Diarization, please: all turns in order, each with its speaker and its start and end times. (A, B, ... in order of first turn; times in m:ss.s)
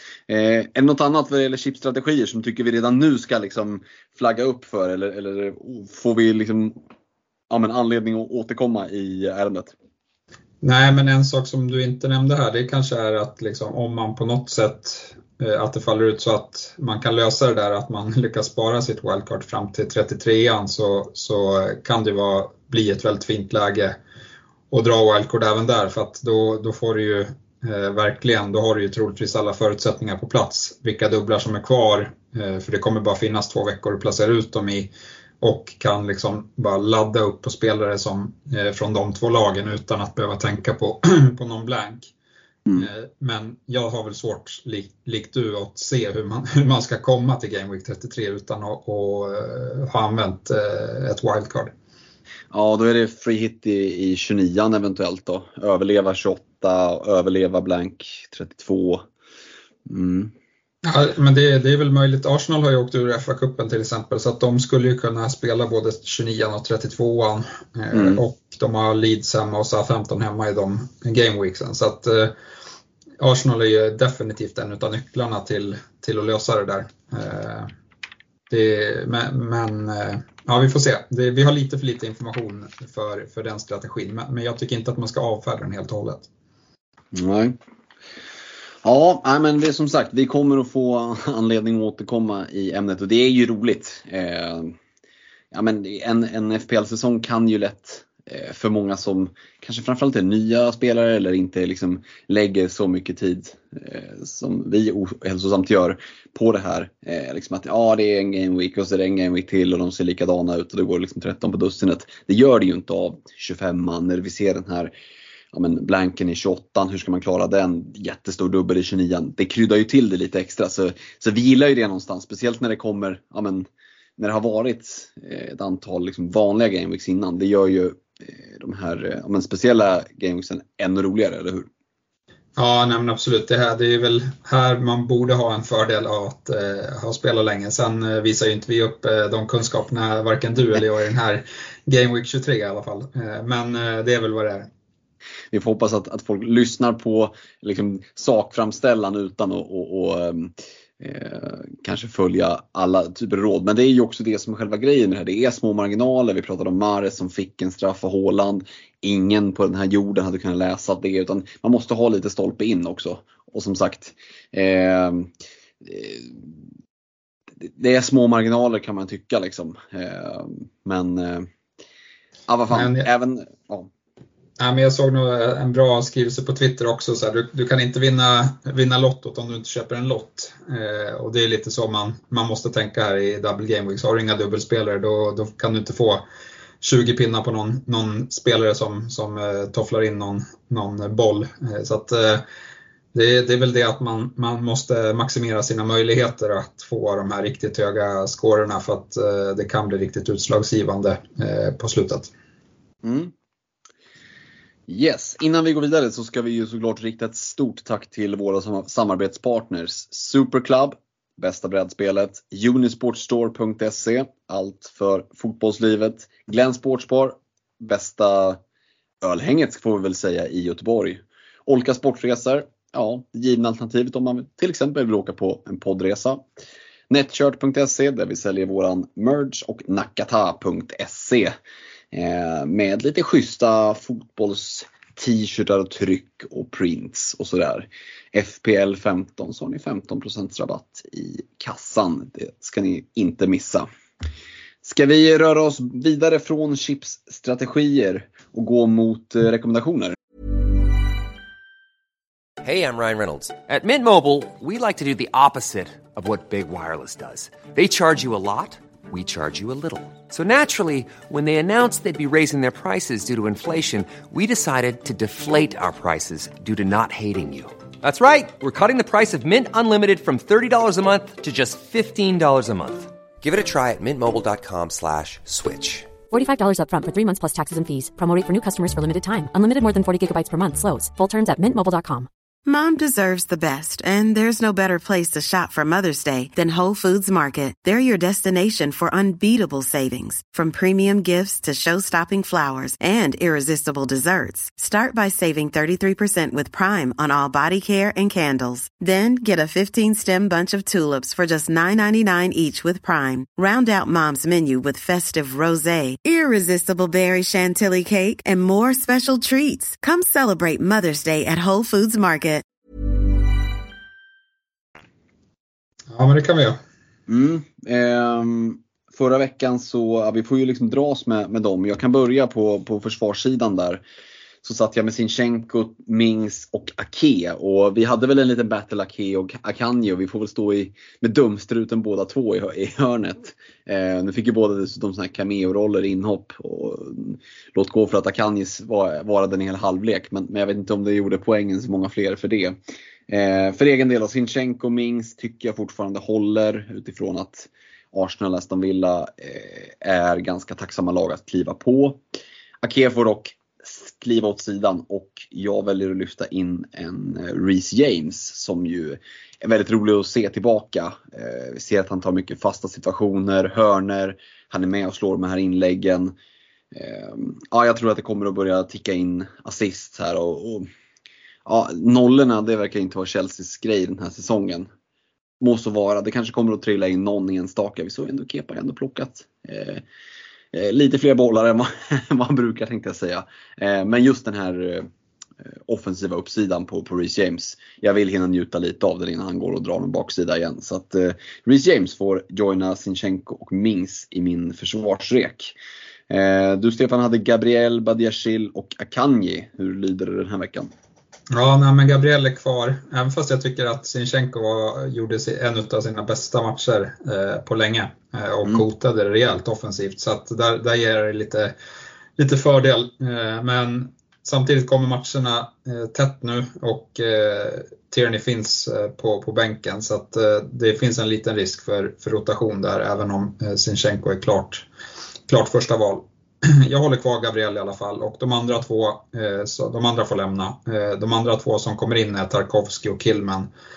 0:00.3-0:06.8 A
0:07.5-0:09.7 A
0:10.6-0:24.0 B
0:24.7-0:42.1 B
0:42.8-0:51.7 B
0:52.5-0:59.0 A
0:59.9-1:00.3 A
1:00.8-1:12.3 B
1:07.9-1:08.2 A
1:13.2-1:17.7 B
1:18.5-1:26.3 B
1:27.1-1:27.6 A
1:28.8-1:34.8 A
1:35.5-1:54.9 A
1:55.5-2:03.7 A
2:04.2-2:11.7 A
2:12.6-2:24.7 B
2:25.5-2:46.5 A
2:47.6-2:51.5 A
2:52.5-2:53.9 A
2:52.7-2:53.1 B
2:54.6-3:06.2 B
3:06.8-3:12.4 B
3:13.1-3:22.3 B
3:23.0-3:23.3 A
3:24.9-3:38.6 A
3:39.2-3:46.4 A
3:47.1-3:51.5 A
3:52.1-4:03.9 A
4:04.8-4:10.2 A
4:12.6-4:36.2 C
4:36.3-4:42.3 D
4:42.6-5:12.6 E
5:16.1-5:16.8 B
5:17.3-5:24.0 A
5:24.6-5:52.2 A
5:52.8-6:06.3 A
6:06.9-6:10.9 A
6:11.6-6:14.9 A
6:15.6-6:20.0 A
6:20.7-6:25.1 A
6:25.9-6:35.8 A
6:36.3-6:40.9 A
6:41.5-6:51.7 B
6:52.4-7:04.9 B
7:05.5-7:13.7 B